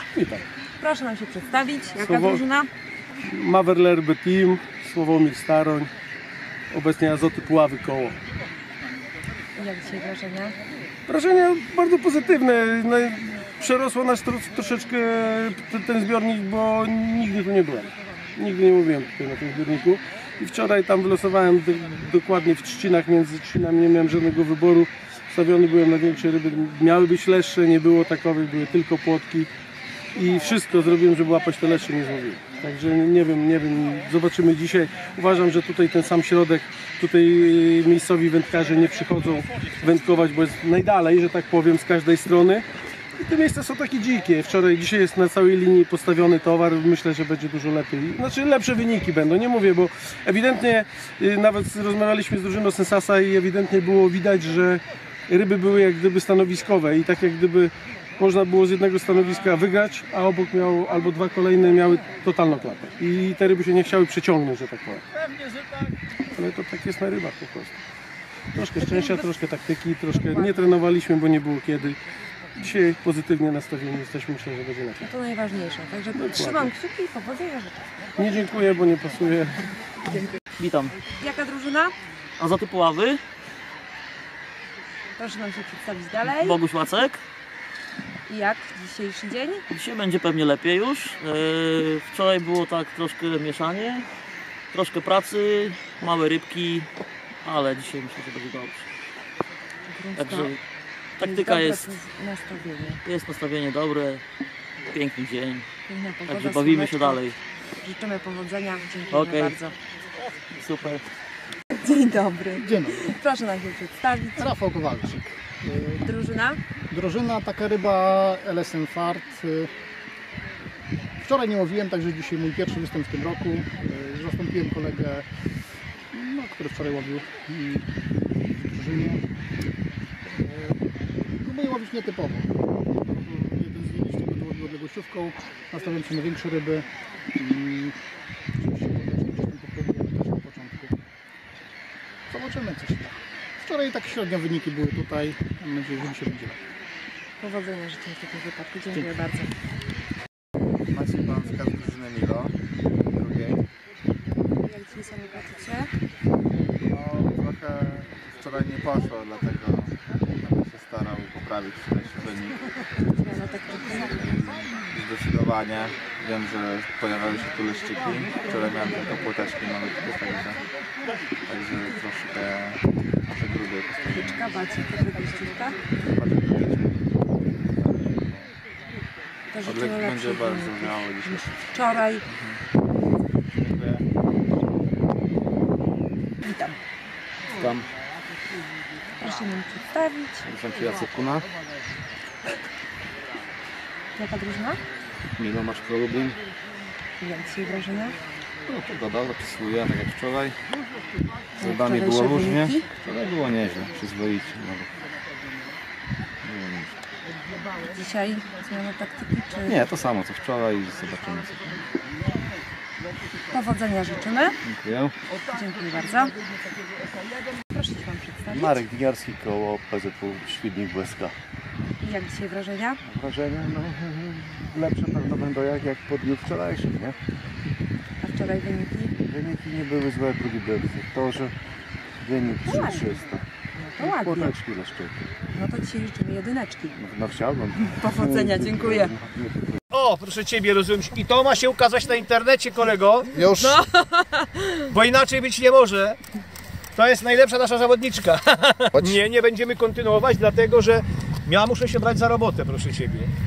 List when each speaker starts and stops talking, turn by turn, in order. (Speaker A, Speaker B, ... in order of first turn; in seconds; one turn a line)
Speaker A: 0.1-0.4
Speaker B: 0.8-2.7
Speaker A: 2.0-2.4
Speaker A: 3.2-5.9
Speaker A: 6.7-8.2
Speaker B: 9.6-10.6
Speaker A: 11.1-29.5
Speaker A: 30.1-42.6
Speaker A: 43.2-65.0
Speaker A: 66.3-67.8
Speaker A: 68.5-72.0
Speaker B: 68.8-69.3
Speaker B: 70.2-70.7
Speaker A: 72.5-75.0
Speaker B: 75.0-77.8
Speaker A: 76.1-76.7
Speaker A: 78.2-79.7
Speaker C: 80.5-80.9
Speaker B: 81.2-81.9
Speaker C: 82.4-83.2
Speaker B: 85.2-86.6
Speaker C: 86.2-87.2
Speaker B: 88.2-89.6
Speaker C: 89.7-94.0
Speaker C: 94.7-96.9
Speaker C: 97.4-98.8
Speaker B: 99.9-100.5
Speaker C: 100.2-100.6
Speaker C: 101.2-101.9
Speaker B: 101.2-103.0
Speaker C: 103.0-104.2
Speaker C: 104.9-105.6
Speaker B: 105.9-107.2
Speaker C: 106.3-107.3
Speaker B: 107.8-109.8
Speaker C: 109.1-109.5
Speaker C: 110.5-111.0
Speaker B: 111.8-114.5
Speaker D: 112.6-112.9
Speaker D: 114.4-116.0
Speaker B: 116.0-116.6
Speaker D: 116.9-119.7
Speaker D: 121.2-125.2
Speaker D: 126.1-127.8
Speaker D: 128.6-129.2
Speaker D: 130.3-130.7
Speaker D: 131.4-132.5
Speaker D: 133.1-136.8
Speaker D: 137.4-137.9
Speaker E: 138.7-140.6
Speaker D: 139.5-140.0
Speaker D: 140.5-140.9
Speaker D: 142.3-143.1
Speaker D: 143.6-146.5
Speaker B: 147.4-149.5
Speaker F: 150.9-152.6
Speaker F: 153.1-153.6
Speaker B: 154.6-155.9
Speaker F: 156.9-162.6
Speaker B: 163.1-164.2
Speaker F: 164.0-170.6
Speaker F: 171.4-174.4
Speaker B: 174.1-175.8
Speaker F: 176.0-178.5
Speaker B: 179.5-182.2
Speaker F: 179.6-181.5
Speaker F: 182.2-182.6
Speaker F: 183.5-184.0
Speaker B: 186.4-186.8
Speaker G: 187.6-187.8
Speaker B: 189.2-190.5
Speaker G: 190.4-191.5
Speaker B: 194.1-194.8
Speaker G: 195.4-196.4
Speaker B: 197.2-198.2
Speaker G: 198.7-200.5
Speaker B: 201.6-202.8
Speaker H: 201.6-202.7
Speaker G: 201.6-204.9
Speaker G: 206.5-206.8
Speaker B: 207.8-209.8
Speaker G: 209.7-211.5
Speaker B: 213.5-214.6
Speaker G: 214.7-215.1
Speaker B: 215.4-216.3
Speaker B: 217.7-218.8
Speaker H: 218.5-221.3
Speaker B: 222.0-223.0
Speaker H: 223.0-227.2
Speaker B: 228.2-229.1
Speaker H: 229.2-231.5
Speaker H: 232.2-233.4
Speaker B: 232.6-233.1
Speaker B: 233.7-234.5
Speaker H: 234.0-235.2
Speaker B: 235.5-237.0
Speaker H: 236.9-239.8
Speaker B: 237.9-239.1
Speaker E: 239.9-243.7
Speaker B: 243.5-244.9
Speaker E: 244.9-246.2
Speaker E: 246.9-253.3